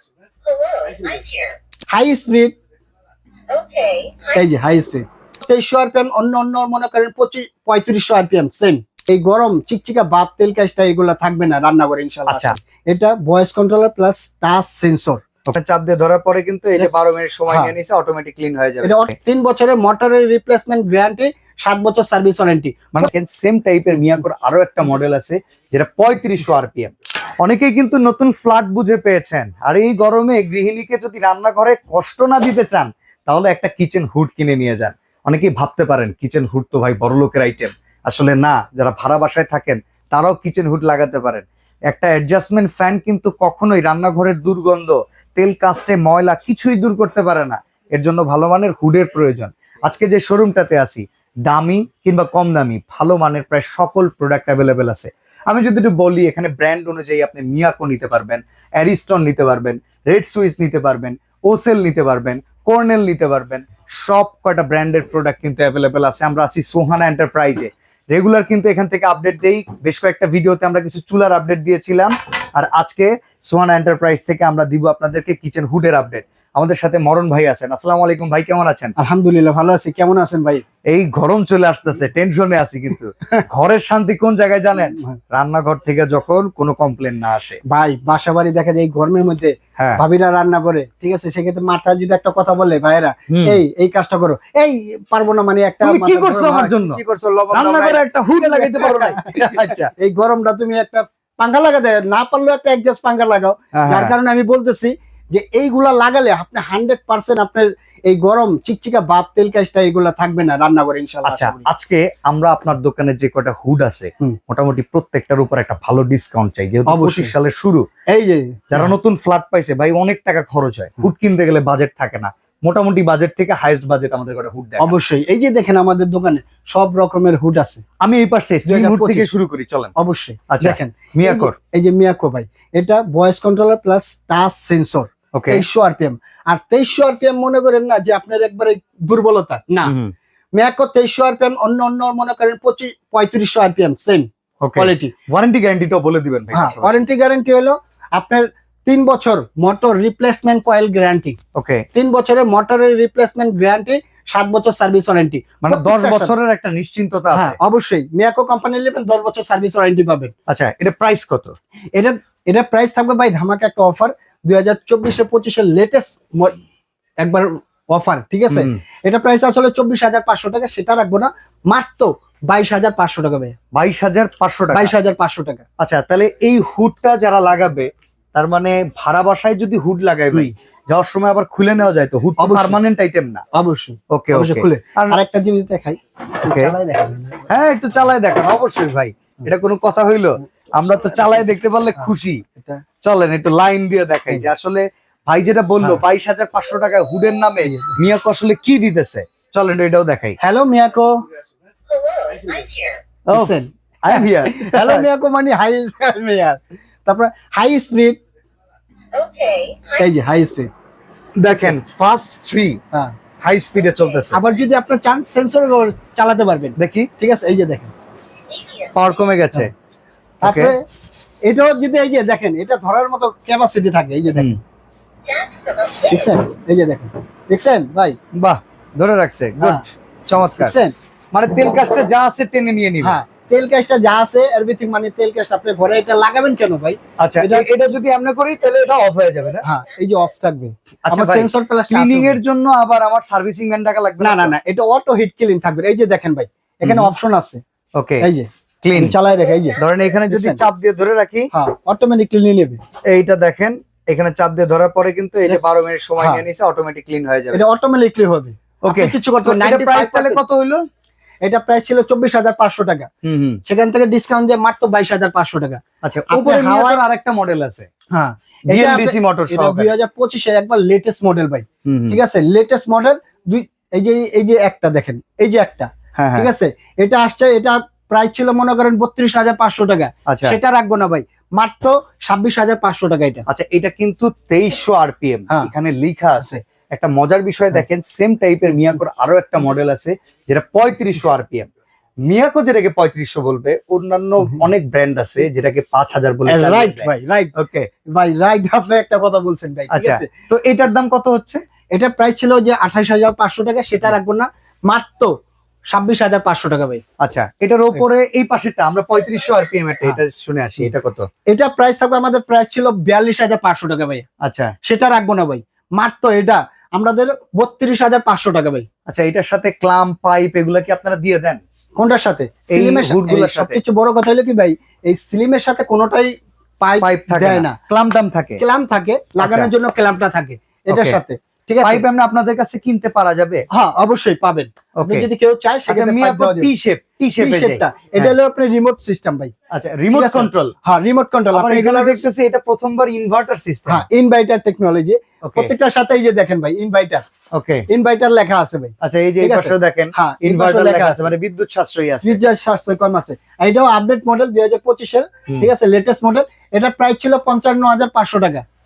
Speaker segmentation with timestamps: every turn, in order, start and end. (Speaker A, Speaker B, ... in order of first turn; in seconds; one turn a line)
Speaker A: 0.5-1.6
Speaker B: 1.9-2.5
Speaker A: 3.5-4.3
Speaker B: 4.3-15.2
Speaker C: 12.3-12.6
Speaker C: 15.5-19.1
Speaker B: 17.5-17.7
Speaker B: 18.8-23.1
Speaker C: 22.9-79.0
Speaker B: 79.0-80.6
Speaker C: 80.9-87.6
Speaker B: 87.7-111.7
Speaker C: 89.8-90.0
Speaker C: 93.3-93.6
Speaker C: 95.8-97.0
Speaker C: 97.5-99.9
Speaker C: 103.8-104.2
Speaker C: 111.2-117.9
Speaker B: 116.9-117.3
Speaker B: 118.1-118.9
Speaker C: 118.7-124.9
Speaker B: 124.8-127.8
Speaker C: 128.0-129.9
Speaker B: 128.7-129.3
Speaker B: 130.0-139.9
Speaker C: 130.5-131.5
Speaker C: 135.3-135.7
Speaker C: 139.8-140.1
Speaker B: 140.6-145.1
Speaker C: 144.6-147.0
Speaker B: 146.5-151.4
Speaker C: 151.6-151.8
Speaker B: 151.9-156.3
Speaker C: 155.6-157.6
Speaker B: 157.3-160.3
Speaker C: 160.5-161.5
Speaker B: 161.9-166.6
Speaker B: 167.2-173.6
Speaker C: 168.5-168.8
Speaker C: 173.7-174.9
Speaker B: 174.7-175.6
Speaker C: 175.8-183.4
Speaker B: 182.4-182.8
Speaker B: 183.6-187.5
Speaker C: 184.1-185.2
Speaker C: 186.5-186.8
Speaker C: 187.5-192.4
Speaker C: 193.0-200.4
Speaker B: 197.6-198.0
Speaker B: 200.4-201.1
Speaker A: 201.9-203.0
Speaker C: 203.3-205.1
Speaker B: 203.3-208.2
Speaker A: 209.1-210.0
Speaker B: 210.0-210.7
Speaker C: 211.4-212.8
Speaker B: 211.5-211.8
Speaker C: 213.4-214.4
Speaker B: 214.3-217.9
Speaker C: 216.8-217.1
Speaker A: 218.5-219.0
Speaker C: 218.9-219.7
Speaker C: 220.4-220.7
Speaker B: 220.4-220.8
Speaker B: 221.4-224.6
Speaker A: 225.3-226.2
Speaker B: 226.1-228.2
Speaker C: 228.3-230.7
Speaker B: 230.6-230.9
Speaker C: 231.3-233.2
Speaker B: 233.0-237.7
Speaker C: 237.2-239.7
Speaker B: 239.6-242.4
Speaker C: 241.1-244.5
Speaker B: 244.2-247.6
Speaker C: 246.8-247.1
Speaker C: 248.0-248.3
Speaker B: 248.2-250.6
Speaker C: 248.8-249.2
Speaker C: 249.8-251.5
Speaker B: 251.5-252.8
Speaker C: 253.1-257.6
Speaker B: 256.2-256.4
Speaker B: 257.5-260.4
Speaker C: 258.8-260.8
Speaker B: 261.4-263.1
Speaker C: 263.2-263.6
Speaker B: 263.6-267.0
Speaker C: 266.0-267.9
Speaker B: 268.1-283.4
Speaker C: 268.7-269.9
Speaker C: 271.9-272.2
Speaker C: 276.1-276.5
Speaker C: 280.3-280.6
Speaker C: 283.5-291.7
Speaker C: 292.2-297.9
Speaker B: 296.5-297.5
Speaker B: 298.1-300.3
Speaker C: 299.9-301.6
Speaker B: 301.9-305.3
Speaker B: 305.9-307.0
Speaker C: 307.2-311.3
Speaker B: 311.5-314.2
Speaker C: 314.4-314.7
Speaker B: 314.9-318.9
Speaker C: 319.1-321.6
Speaker B: 322.0-327.8
Speaker C: 322.7-323.8
Speaker C: 327.0-328.6
Speaker B: 328.6-332.0
Speaker C: 329.4-329.7
Speaker C: 330.9-331.2
Speaker C: 331.8-333.7
Speaker B: 333.7-336.7
Speaker C: 335.0-335.3
Speaker C: 335.9-338.4
Speaker B: 337.4-339.5
Speaker C: 339.7-340.8
Speaker B: 340.1-342.2
Speaker C: 341.5-344.1
Speaker B: 343.9-347.2
Speaker C: 345.4-345.7
Speaker C: 347.5-347.9
Speaker B: 347.9-351.3
Speaker C: 349.0-352.4
Speaker B: 352.2-358.6